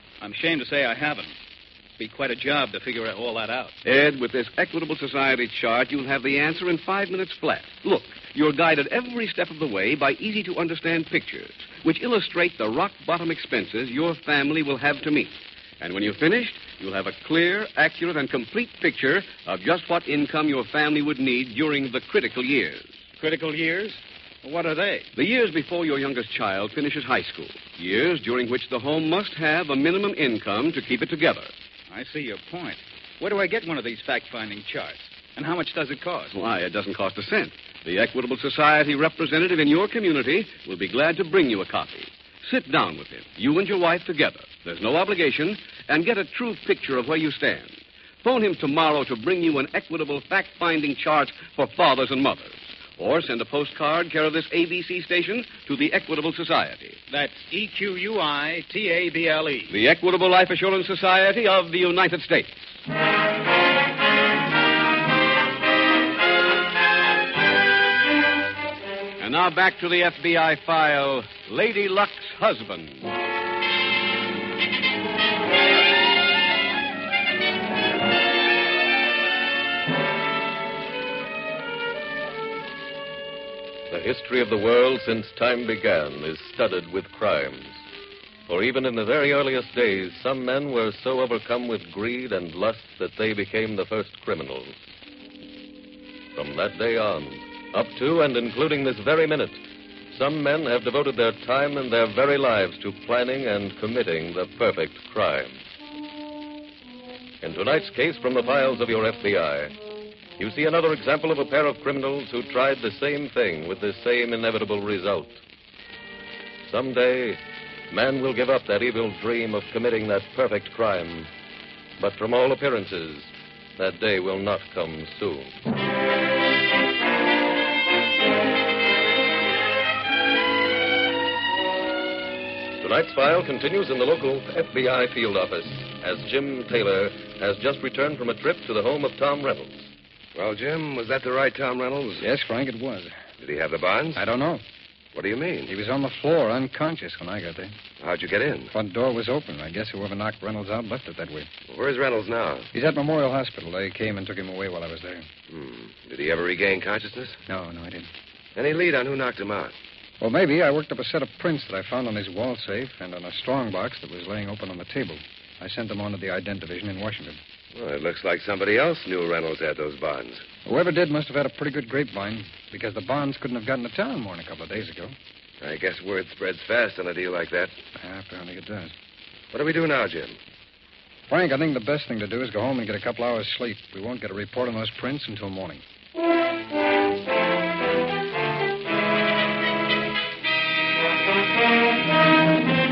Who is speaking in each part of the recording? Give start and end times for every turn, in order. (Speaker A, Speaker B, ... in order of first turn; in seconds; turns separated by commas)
Speaker A: 0.2-1.4, Speaker A: 2.0-3.7, Speaker B: 3.8-23.0, Speaker A: 23.2-25.1, Speaker B: 25.1-31.5, Speaker A: 31.9-36.4, Speaker B: 36.3-57.0, Speaker A: 57.1-59.7, Speaker B: 59.7-62.7, Speaker B: 69.2-73.1, Speaker C: 83.9-87.8, Speaker C: 88.5-94.8, Speaker C: 96.3-99.6, Speaker C: 100.1-105.6, Speaker C: 107.4-109.7, Speaker C: 110.4-115.4, Speaker C: 116.7-117.4, Speaker C: 117.9-121.3, Speaker C: 122.0-125.5, Speaker C: 132.8-139.9, Speaker D: 140.3-142.3, Speaker E: 142.2-143.1, Speaker D: 143.4-144.2, Speaker E: 144.2-144.6, Speaker D: 145.1-145.8, Speaker E: 145.7-147.7, Speaker D: 148.0-148.7, Speaker E: 148.7-151.5, Speaker D: 151.7-152.7, Speaker E: 152.7-155.3, Speaker D: 155.5-157.4, Speaker E: 157.5-158.1, Speaker D: 158.6-159.7, Speaker E: 160.2-167.4, Speaker D: 167.8-170.5, Speaker E: 170.7-175.2, Speaker D: 175.6-177.8, Speaker E: 178.0-178.9, Speaker D: 179.5-180.4, Speaker E: 181.3-185.8